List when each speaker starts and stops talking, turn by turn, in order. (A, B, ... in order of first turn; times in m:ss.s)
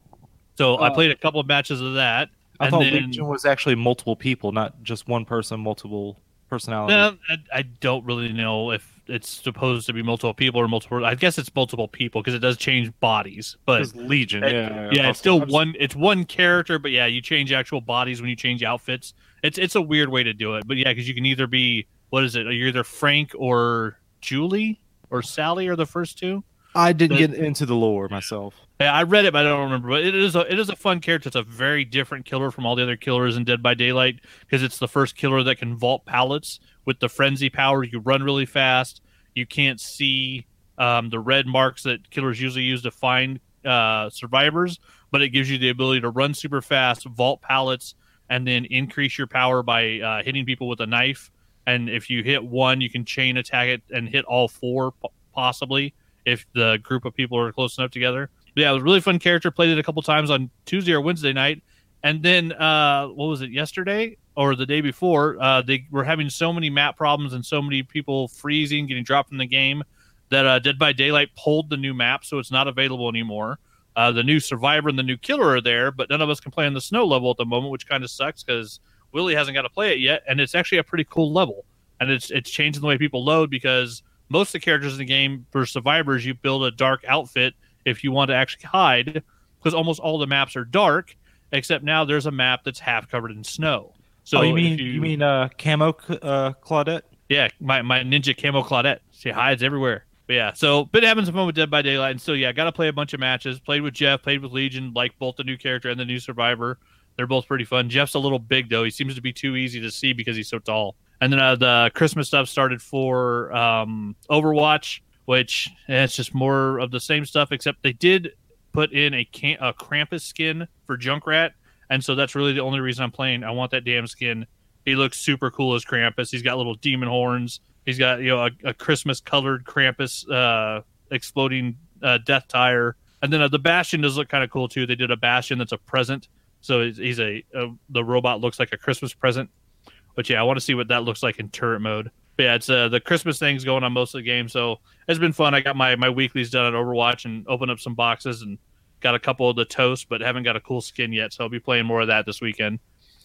0:00.6-0:03.3 A
0:00.8-0:01.0 B
0:02.6-0:07.1 B
0:06.9-0:13.9 A
0:13.8-0:15.6 B
0:14.4-0:26.4 A
0:26.7-0:28.6 B
0:28.8-1:35.1 A
1:34.4-1:37.1 B
1:37.3-2:19.5 A
2:20.2-2:32.8 A